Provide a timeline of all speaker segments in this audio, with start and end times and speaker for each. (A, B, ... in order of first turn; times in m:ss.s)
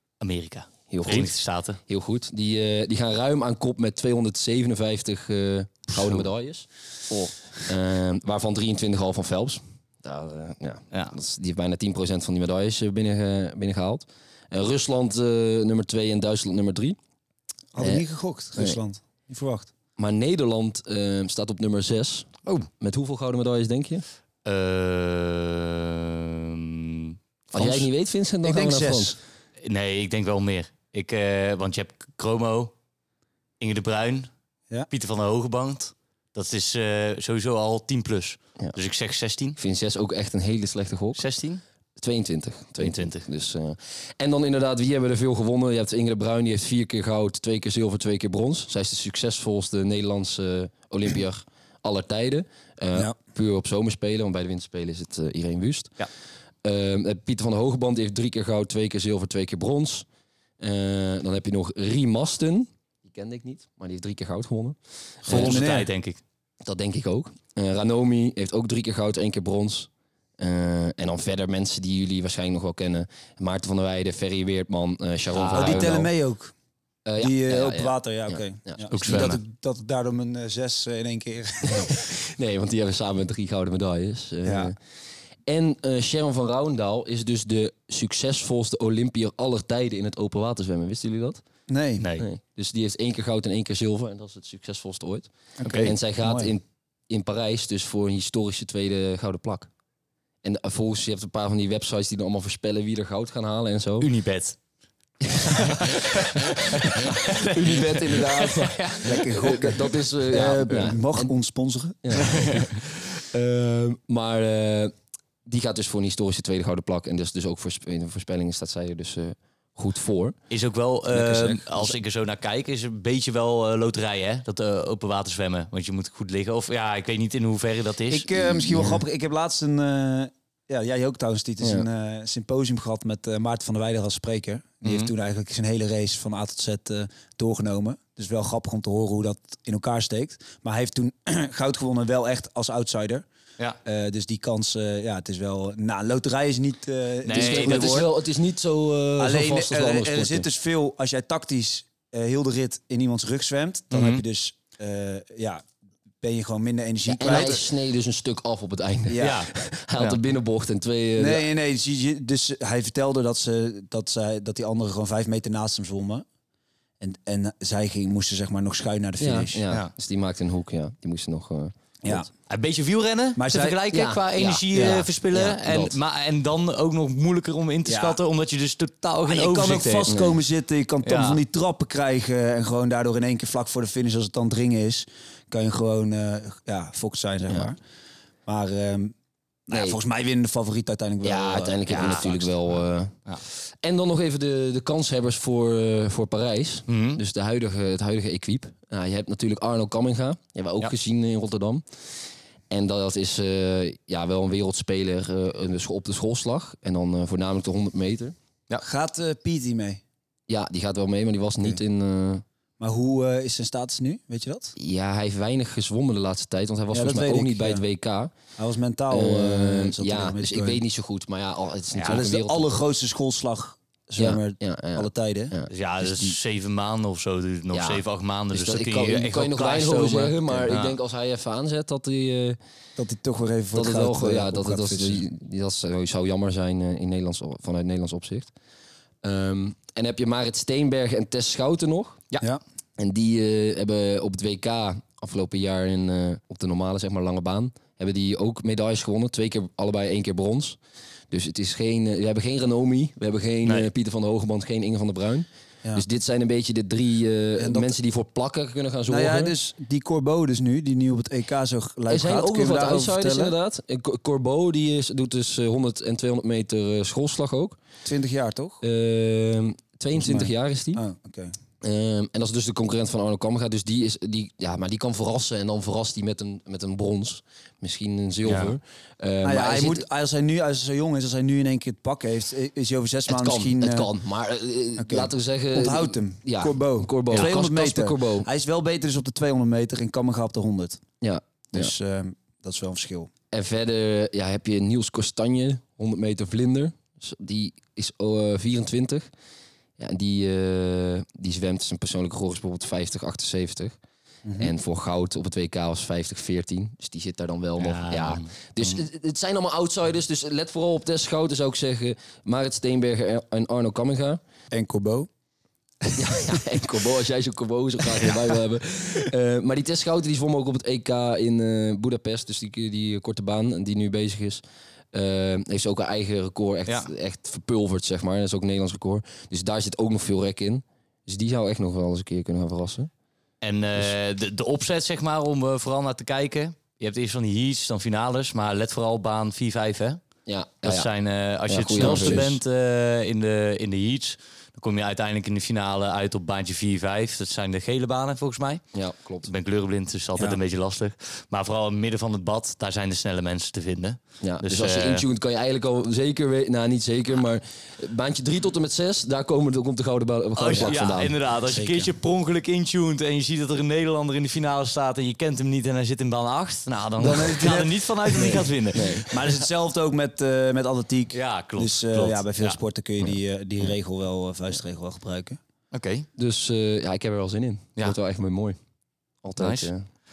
0:00.2-0:01.8 A
0:00.9-0:01.3 B
0:01.9-0:17.0 B
0:06.0-0:06.2 A
0:17.7-0:19.7 C
0:17.8-0:18.0 B
0:20.0-0:24.0 B
0:24.4-0:27.2 A
0:27.5-0:29.2 B
0:27.6-0:27.8 C
0:28.4-0:29.2 C
0:29.6-0:32.7 A
0:33.6-0:34.3 A
0:34.9-0:39.6 A
0:39.6-0:41.2 B
0:41.1-0:41.6 A
0:42.0-0:56.0 B
0:42.8-0:43.2 A
0:56.6-1:00.1 B
1:00.6-1:05.6 B
1:05.3-1:05.9 C
1:05.3-1:06.2 A
1:06.6-1:16.1 B
1:15.3-1:15.9 A
1:15.5-1:16.5 C
1:17.0-1:18.9 B
1:17.2-1:22.0 C
1:18.9-1:19.4 A
1:21.7-1:24.8 B
1:24.4-1:24.7 C
1:25.4-1:31.4 B
1:31.7-1:32.1 C
1:32.0-1:32.2 A
1:32.2-1:35.3 B
1:35.6-1:36.5 C
1:35.6-1:35.9 A
1:35.8-1:39.7 B
1:40.4-1:44.1 B
1:44.0-1:44.6 A
1:45.2-1:51.3 B
1:45.8-1:49.2 A
1:49.0-1:52.6 C
1:52.0-1:54.9 B
1:52.4-1:52.7 A
1:55.4-2:00.4 B
2:00.5-2:08.3 A
2:01.1-2:02.0 B
2:08.1-2:23.3 C
2:08.4-2:09.0 B
2:11.6-2:11.9 B
2:14.8-2:15.1 A
2:23.8-2:28.1 C
2:27.3-2:28.0 A
2:27.3-2:30.5 B
2:29.2-2:35.6 C
2:33.9-2:34.2 A
2:36.2-2:37.6 C
2:37.1-2:41.5 B
2:39.1-2:39.4 C
2:39.2-2:40.2 A
2:41.2-2:46.2 C
2:47.0-2:49.6 C
2:49.2-2:52.3 B
2:52.5-3:00.1 A
2:53.4-2:53.8 C
2:53.9-2:56.0 B
2:57.9-2:58.2 C
2:59.3-3:07.8 C
3:00.1-3:00.4 B
3:01.0-3:01.4 A
3:08.4-3:09.1 C
3:09.7-3:12.5 C
3:09.7-3:10.0 B
3:11.2-3:21.8 B
3:11.9-3:12.3 A
3:16.9-3:17.2 A
3:22.7-3:28.4 B
3:28.8-3:30.0 C
3:30.5-3:32.4 B
3:32.8-3:34.8 C
3:34.8-3:38.3 B
3:36.9-3:37.8 C
3:38.6-3:40.8 C
3:39.1-3:42.7 B
3:41.9-3:42.2 A
3:42.1-3:46.3 C
3:44.2-3:45.7 B
3:45.7-3:51.0 A
3:47.7-3:52.6 B
3:53.0-3:55.2 C
3:53.7-3:58.5 B
3:59.2-4:02.2 B
4:03.0-4:10.8 B
4:11.3-4:19.6 B
4:13.6-4:13.9 A
4:17.6-4:17.9 C
4:19.1-4:23.5 C
4:22.1-4:27.8 B
4:28.0-4:28.8 C
4:28.8-4:31.0 B
4:30.1-4:31.5 C
4:31.8-4:40.0 B
4:38.4-4:38.7 A
4:39.4-4:44.1 C
4:43.3-4:48.5 B
4:45.0-4:51.0 C
4:51.2-4:51.9 B
4:51.7-4:53.3 C
4:53.5-4:59.3 B
5:00.0-5:04.0 B
5:04.4-5:04.7 C
5:04.6-5:14.4 B
5:07.8-5:09.0 A
5:14.7-5:15.3 C
5:16.1-5:16.4 C
5:16.2-5:33.1 B
5:33.6-5:40.2 A
5:40.5-5:41.1 B
5:40.8-5:48.8 A
5:41.7-5:42.6 B
5:42.0-5:42.4 C
5:48.9-5:49.5 B
5:49.4-5:55.2 A
5:54.4-6:01.4 B
6:00.6-6:09.4 A
6:01.7-6:02.1 C
6:07.2-6:15.6 C
6:08.4-6:09.3 B
6:11.3-6:12.8 A
6:15.9-6:16.3 A
6:16.4-6:18.8 B
6:19.4-6:20.1 B
6:19.6-6:19.9 A